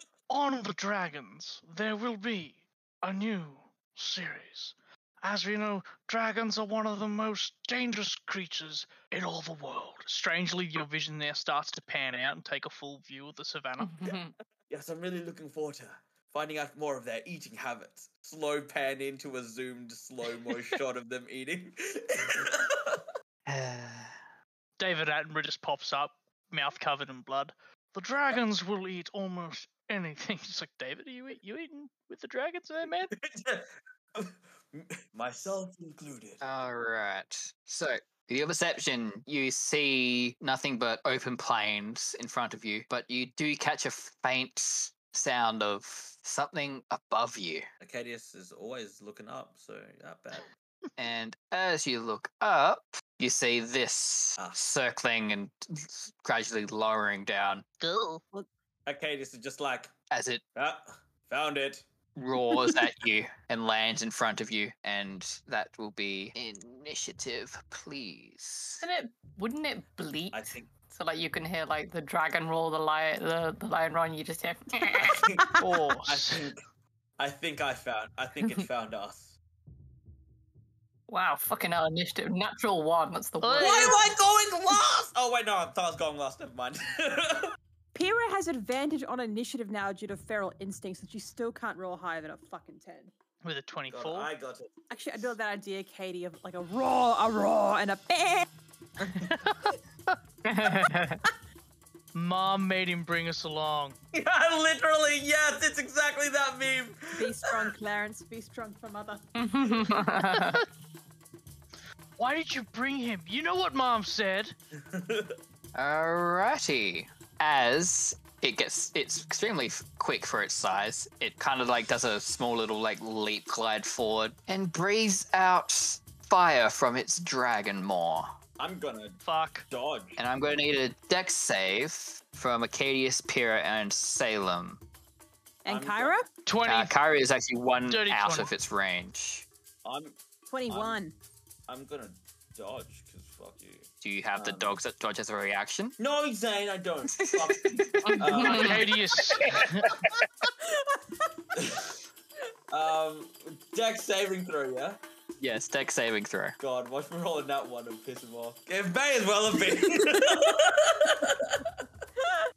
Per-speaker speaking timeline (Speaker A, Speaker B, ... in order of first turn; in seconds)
Speaker A: 0.3-13.9, 24.8-33.1, 57.8-58.2, 75.6-76.5, 83.4-84.0, 93.4-94.3, 102.1-104.0, 112.2-114.5, 129.2-129.7, 136.5-136.9, 137.9-138.5, 148.4-149.9
Speaker B: 13.8-14.3, 68.8-75.3, 81.1-84.0, 100.4-101.2, 109.3-110.7, 148.0-148.8
Speaker C: 14.7-23.0, 33.1-36.4, 47.8-50.5, 58.9-59.9, 60.6-61.9, 70.3-70.7, 75.0-76.6, 77.2-79.4, 83.6-87.6, 93.9-95.2, 99.0-99.3, 104.1-107.7, 114.8-115.4, 128.6-130.2, 135.7-136.2, 139.8-141.0, 141.7-144.8, 146.0-149.6, 151.6-151.9, 152.7-155.0, 156.6-161.7
Speaker D: 23.5-24.1, 36.4-47.7, 51.0-57.6, 60.1-60.4, 62.2-68.8, 115.8-128.3, 130.2-134.8, 136.7-139.5, 144.0-146.0, 147.1-148.1, 149.2-150.3, 155.4-156.6
Speaker E: 75.4-75.7, 88.0-93.1, 94.9-98.5, 107.2-109.3, 135.7-136.3, 140.5-141.2, 150.7-151.0